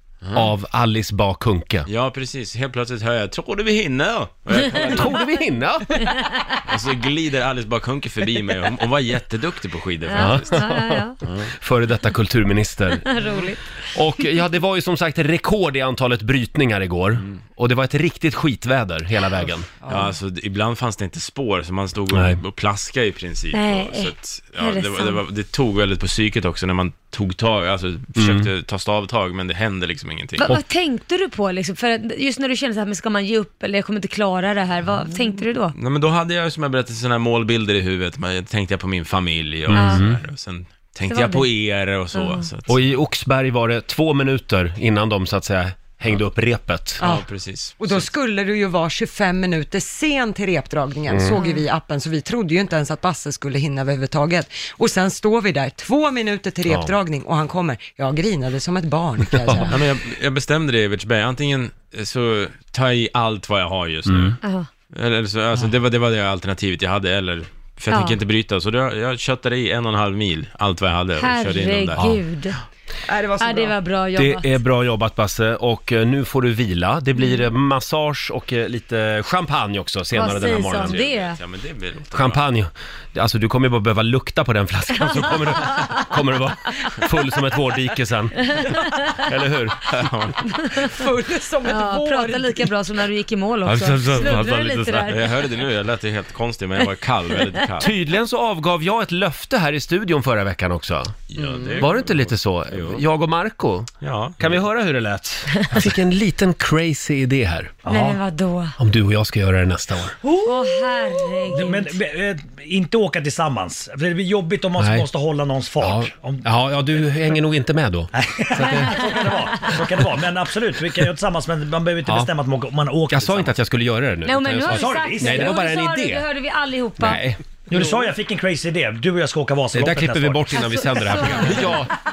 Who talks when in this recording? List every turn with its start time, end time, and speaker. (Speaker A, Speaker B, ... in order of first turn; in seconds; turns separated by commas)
Speaker A: 0.2-0.5, Speaker B: 0.3-1.9, Speaker A: 1.9-5.2, Speaker B: 4.6-6.1, Speaker C: 6.1-6.6, Speaker A: 6.7-10.5, Speaker C: 10.1-11.2, Speaker B: 10.1-13.1, Speaker C: 13.1-13.6, Speaker B: 13.9-19.7, Speaker D: 19.8-20.1, Speaker A: 19.9-30.6, Speaker B: 22.1-22.4, Speaker C: 23.5-25.2, Speaker B: 28.2-28.5, Speaker C: 30.4-35.7, Speaker A: 35.8-42.7, Speaker B: 39.7-40.2, Speaker C: 39.7-40.0, Speaker C: 41.1-41.5, Speaker C: 42.1-42.5, Speaker B: 42.7-47.0, Speaker D: 47.0-47.3, Speaker A: 47.0-48.1, Speaker D: 47.8-59.8, Speaker B: 51.1-51.4, Speaker C: 51.3-51.6, Speaker B: 59.4-59.7, Speaker A: 59.7-64.4, Speaker B: 64.1-64.3, Speaker C: 64.4-64.7, Speaker A: 64.9-72.2, Speaker C: 67.9-68.2, Speaker C: 71.2-72.6, Speaker D: 73.1-73.7, Speaker C: 73.4-74.5, Speaker B: 74.2-81.0, Speaker C: 77.2-77.5, Speaker C: 80.1-81.4, Speaker A: 80.8-82.4, Speaker B: 82.1-90.0, Speaker C: 88.5-89.1, Speaker A: 89.9-90.5, Speaker C: 90.6-90.9, Speaker D: 90.8-92.7, Speaker C: 91.7-95.3, Speaker B: 94.1-94.8, Speaker A: 95.1-97.9, Speaker B: 97.8-101.2, Speaker A: 101.3-103.0, Speaker B: 101.8-107.8, Speaker A: 104.0-104.5, Speaker E: 107.9-108.2, Speaker C: 107.9-108.8, Speaker B: 108.8-110.2, Speaker E: 110.3-110.5, Speaker C: 110.4-112.0, Speaker E: 111.5-116.5, Speaker B: 114.8-115.1, Speaker B: 115.8-119.0, Speaker E: 118.2-123.5, Speaker C: 118.9-119.7, Speaker B: 123.1-126.2, Speaker C: 124.2-127.2, Speaker E: 124.7-125.6, Speaker B: 127.0-128.0, Speaker E: 127.7-130.7, Speaker B: 129.7-131.9, Speaker C: 130.7-131.9